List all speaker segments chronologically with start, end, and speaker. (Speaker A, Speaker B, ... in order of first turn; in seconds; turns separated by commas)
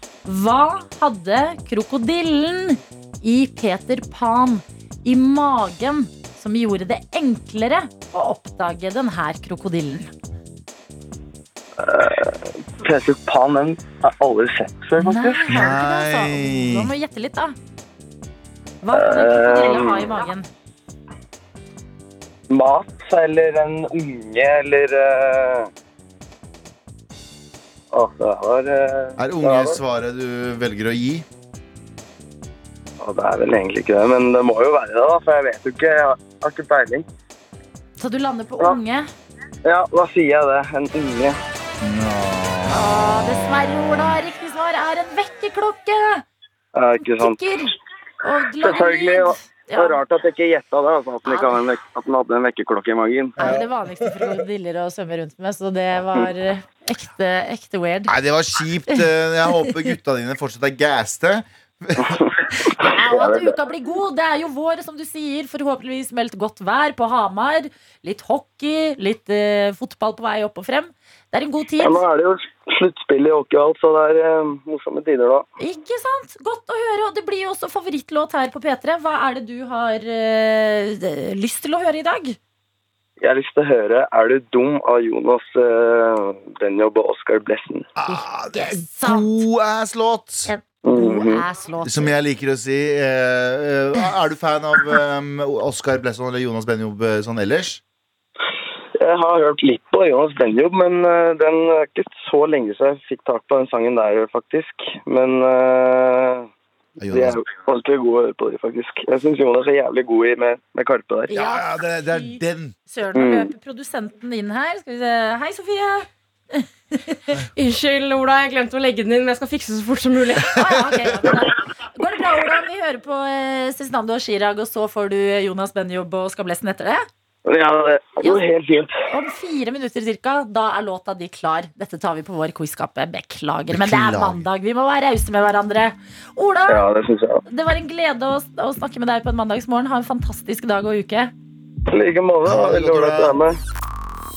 Speaker A: 0.2-10.1, Speaker B: 11.8-15.6, Speaker A: 15.0-17.6, Speaker C: 15.4-16.9, Speaker A: 18.8-20.5, Speaker B: 18.9-20.1, Speaker B: 22.5-25.7, Speaker B: 27.9-29.8, Speaker C: 29.2-31.2, Speaker B: 33.0-37.0, Speaker A: 38.0-39.1, Speaker B: 39.6-41.4, Speaker C: 41.8-43.0, Speaker A: 42.7-46.2, Speaker B: 46.7-47.4, Speaker A: 47.0-50.0, Speaker B: 48.6-53.4, Speaker A: 51.2-51.6, Speaker A: 53.4-58.1, Speaker C: 53.4-54.3, Speaker C: 58.1-62.2, Speaker B: 62.0-63.5, Speaker A: 62.5-72.0, Speaker B: 71.8-75.5, Speaker A: 75.6-82.4, Speaker B: 83.2-87.9, Speaker C: 88.0-90.5, Speaker A: 88.0-89.4, Speaker A: 90.5-92.1, Speaker B: 90.8-91.5, Speaker C: 91.8-97.8, Speaker B: 99.0-106.5, Speaker C: 107.0-107.4, Speaker B: 107.0-111.3, Speaker A: 111.3-117.3, Speaker C: 111.3-112.7, Speaker B: 113.1-113.5, Speaker D: 117.5-120.6, Speaker A: 120.5-127.0, Speaker B: 127.5-129.0, Speaker A: 129.1-136.9, Speaker C: 133.7-134.4, Speaker B: 136.7-137.4, Speaker A: 137.4-141.3, Speaker B: 141.9-143.6, Speaker C: 142.4-143.4